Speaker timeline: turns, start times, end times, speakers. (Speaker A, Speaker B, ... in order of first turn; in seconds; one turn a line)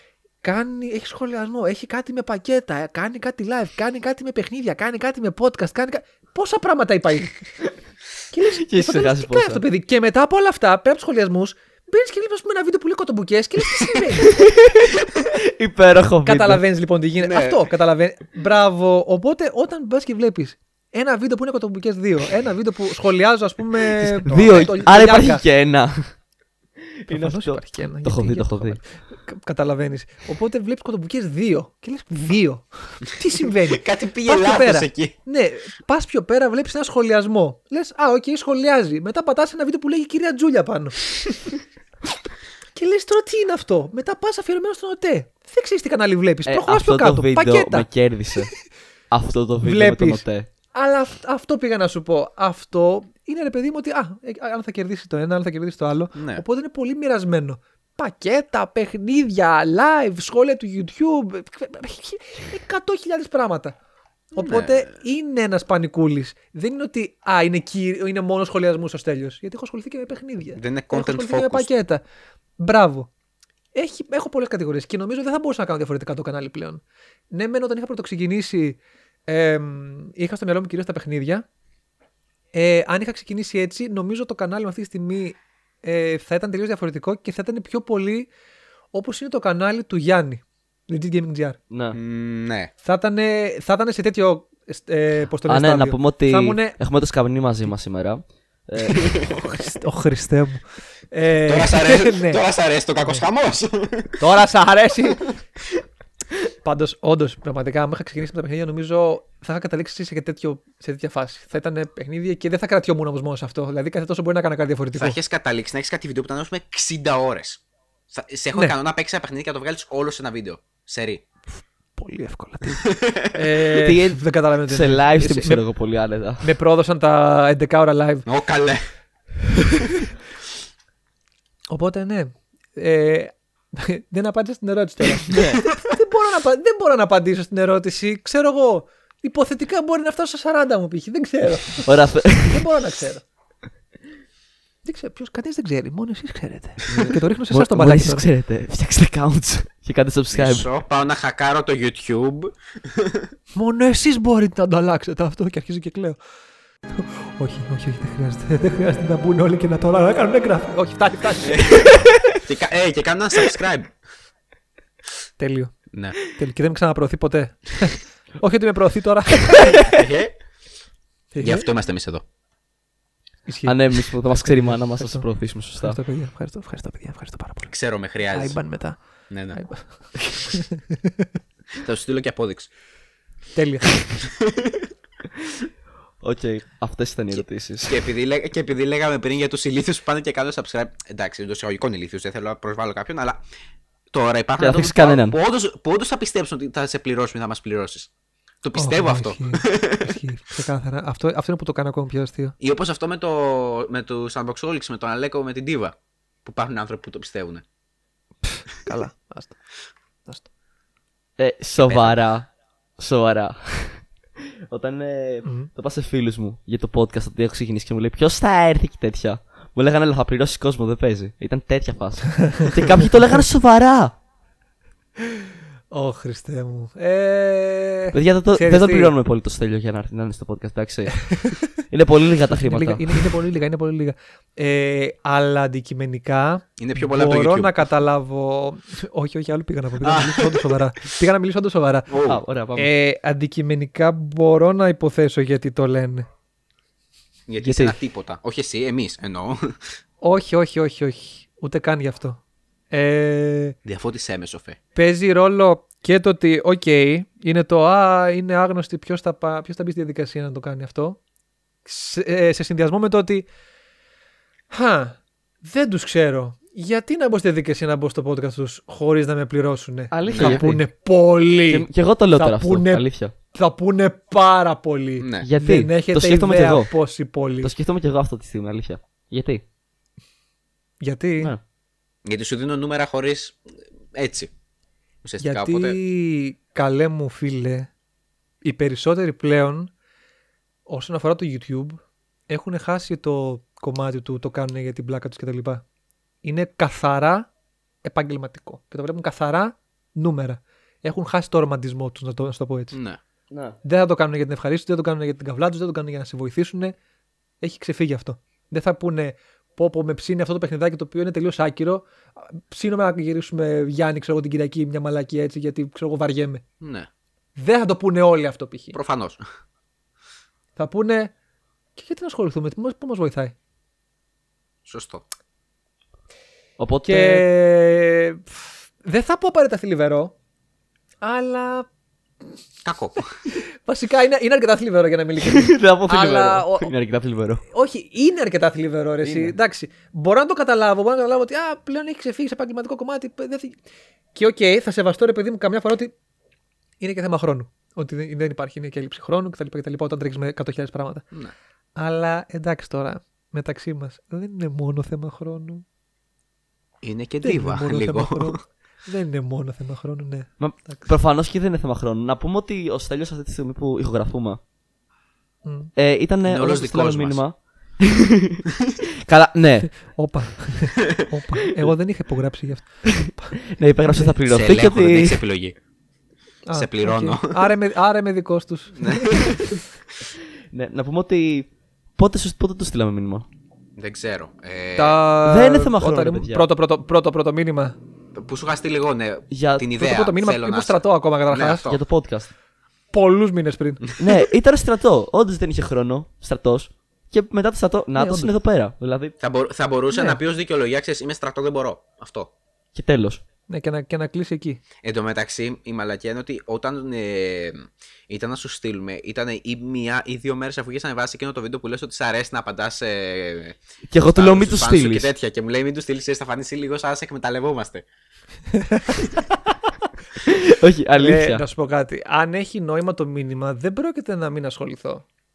Speaker A: 0.4-7.5
Speaker A: 8.3-14.4
Speaker B: 8.5-9.6
Speaker B: 14.2-16.6
Speaker A: 16.2-25.4
Speaker C: 17.2-17.6
Speaker B: 24.0-26.1
Speaker C: 24.3-24.8
Speaker B: 27.0-28.8
Speaker A: 27.1-41.5
Speaker C: 33.7-35.1
Speaker A: 42.8-47.9
Speaker B: 46.5-48.5
Speaker B: 49.1-50.5
Speaker A: 49.6-63.8
Speaker C: 56.1-56.4
Speaker A: 64.3-72.0
Speaker C: 64.4-64.9
Speaker C: 70.6-71.7
Speaker A: 72.6-73.1
Speaker A: 73.8-81.5
Speaker A: 82.5-88.3
Speaker A: 88.9-91.6
Speaker B: 91.7-92.0
Speaker C: 91.9-92.7
Speaker A: 92.8-96.8
Speaker B: 95.5-99.2
Speaker C: 98.9-99.3
Speaker A: 99.3-102.4
Speaker C: 101.5-104.2
Speaker A: 104.2-105.3
Speaker A: 106.6-115.2
Speaker C: 115.0-121.2
Speaker A: 122.0-125.6
Speaker C: 122.7-123.5
Speaker B: 123.7-126.5
Speaker A: 126.4-128.3
Speaker C: 128.3-128.8
Speaker A: 131.7-143.2
Speaker B: 135.3-135.6
Speaker B: 141.9-142.7
Speaker A: 144.8-148.3
Speaker B: 147.5-150.7
Speaker C: 150.3-153.3
Speaker A: 153.5-156.2
Speaker A: 156.9-162.4
Speaker C: 161.4-163.9
Speaker A: 165.4-169.8
Speaker C: 165.9-166.2
Speaker C: 169.6-170.3
Speaker A: 171.3-171.7
Speaker C: 171.4-172.2
Speaker A: 173.5-175.3
Speaker B: 173.7-176.0
Speaker A: 175.8-177.7
Speaker C: 177.7-178.6
Speaker A: 178.3-179.0
Speaker C: 179.3-179.6
Speaker A: 179.5-181.2
Speaker C: 181.7-182.7
Speaker A: 183.6-183.9
Speaker C: 184.2-184.9
Speaker B: 186.2-188.0
Speaker C: 187.8-193.4
Speaker C: 194.1-198.1
Speaker B: 194.6-195.4
Speaker C: 198.6-200.2
Speaker A: 198.8-202.5
Speaker C: 202.6-207.6
Speaker A: 208.4-209.6
Speaker B: 211.4-214.1
Speaker C: 211.8-212.2
Speaker B: 214.7-224.1
Speaker A: 215.4-215.7
Speaker A: 225.9-229.1
Speaker B: 228.1-233.3
Speaker A: 231.3-231.5
Speaker A: 232.6-242.1
Speaker C: 236.8-237.9
Speaker C: 240.0-240.8
Speaker C: 242.1-242.4
Speaker B: 242.2-242.9
Speaker A: 242.8-246.3
Speaker C: 247.5-249.8
Speaker B: 247.6-248.0
Speaker A: 250.2-252.4
Speaker A: 252.9-253.8
Speaker C: 253.8-254.8
Speaker A: 254.9-261.2
Speaker A: 261.9-263.5
Speaker A: 264.7-277.7
Speaker B: 270.1-270.8
Speaker C: 270.3-270.6
Speaker B: 271.7-273.3
Speaker C: 275.2-275.5
Speaker B: 275.4-276.9
Speaker B: 277.6-279.6
Speaker A: 281.0-281.5
Speaker C: 282.2-284.5
Speaker C: 285.2-286.0
Speaker A: 285.4-287.9
Speaker A: 288.6-289.9
Speaker A: 290.9-295.8
Speaker A: 296.4-297.5
Speaker A: 298.0-303.0
Speaker C: 302.9-303.2
Speaker B: 303.5-303.8
Speaker A: 303.8-307.0
Speaker A: 307.6-316.6
Speaker C: 316.8-317.1
Speaker A: 317.6-319.0
Speaker C: 318.9-319.4
Speaker A: 320.8-321.3
Speaker A: 322.0-323.5
Speaker C: 324.9-325.2
Speaker B: 326.8-327.5
Speaker A: 327.1-330.4
Speaker A: 331.2-331.9
Speaker C: 332.8-333.2
Speaker A: 333.6-336.9
Speaker B: 335.4-337.6
Speaker A: 337.7-343.8
Speaker B: 339.2-339.6
Speaker A: 344.4-346.1
Speaker A: 347.0-351.3
Speaker A: 352.0-355.9
Speaker C: 357.0-358.6
Speaker A: 357.4-361.1
Speaker B: 360.6-364.6
Speaker A: 365.6-365.9
Speaker B: 366.0-368.6
Speaker C: 366.4-367.4
Speaker B: 369.3-370.2
Speaker A: 370.1-373.6
Speaker B: 373.1-375.4
Speaker A: 374.1-374.4
Speaker C: 374.5-375.8
Speaker A: 376.7-379.6
Speaker C: 376.7-377.7
Speaker C: 379.0-379.8
Speaker B: 380.7-383.5
Speaker C: 384.0-385.2
Speaker A: 385.0-388.0
Speaker B: 385.4-386.7
Speaker C: 388.4-392.0
Speaker B: 389.5-389.9
Speaker A: 390.0-391.9
Speaker B: 391.9-392.5
Speaker A: 393.1-394.1
Speaker B: 394.2-399.4
Speaker A: 398.2-398.5
Speaker C: 399.4-402.5
Speaker A: 400.1-400.4
Speaker B: 402.9-403.4
Speaker A: 403.7-404.8
Speaker C: 405.0-413.8
Speaker B: 414.1-415.3
Speaker C: 414.3-418.1
Speaker A: 418.8-419.2
Speaker B: 420.5-421.6
Speaker A: 421.2-425.2